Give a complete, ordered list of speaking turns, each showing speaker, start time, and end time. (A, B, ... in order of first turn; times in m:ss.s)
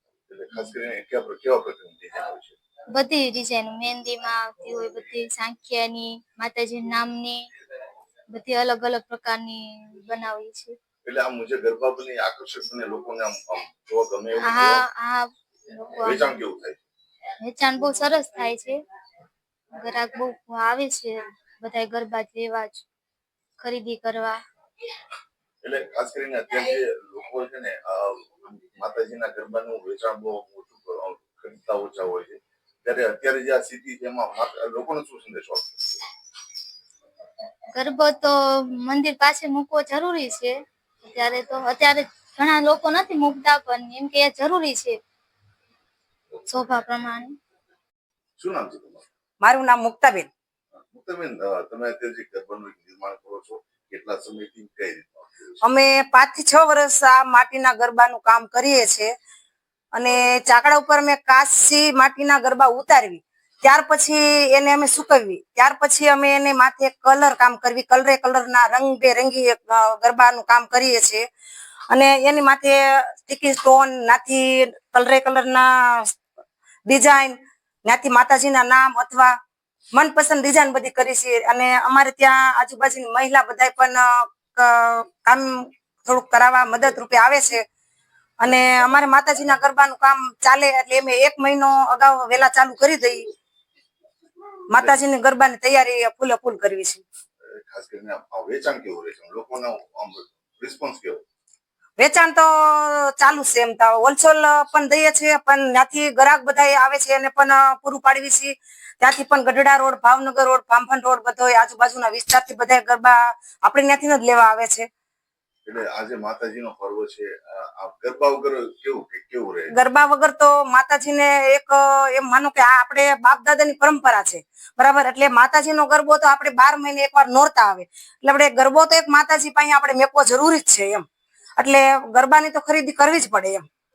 0:00.3-0:02.6 A
0:02.9-0:07.5 B
0:08.3-0:10.8 B
0:11.0-0:14.8 A
0:14.4-0:16.4 B
0:16.0-0:16.8 A
0:17.4-0:18.8 B
0:19.7-0:22.8 B
0:23.6-0:24.4 B
0:25.6-0:36.0 A
0:37.8-0:45.0 B
0:46.5-0:47.4 B
0:48.4-0:49.0 A
0:49.4-0:50.3 C
0:50.8-0:55.6 A
0:55.6-0:59.1 C
0:59.9-1:11.2 C
1:11.9-1:16.2 C
1:16.9-1:19.3 C
1:19.9-1:27.6 C
1:28.4-1:33.3 C
1:34.7-1:37.0 C
1:37.6-1:41.2 A
1:42.0-1:54.9 C
1:55.6-1:59.7 A
1:59.7-2:11.1 C
2:11.6-2:13.6 C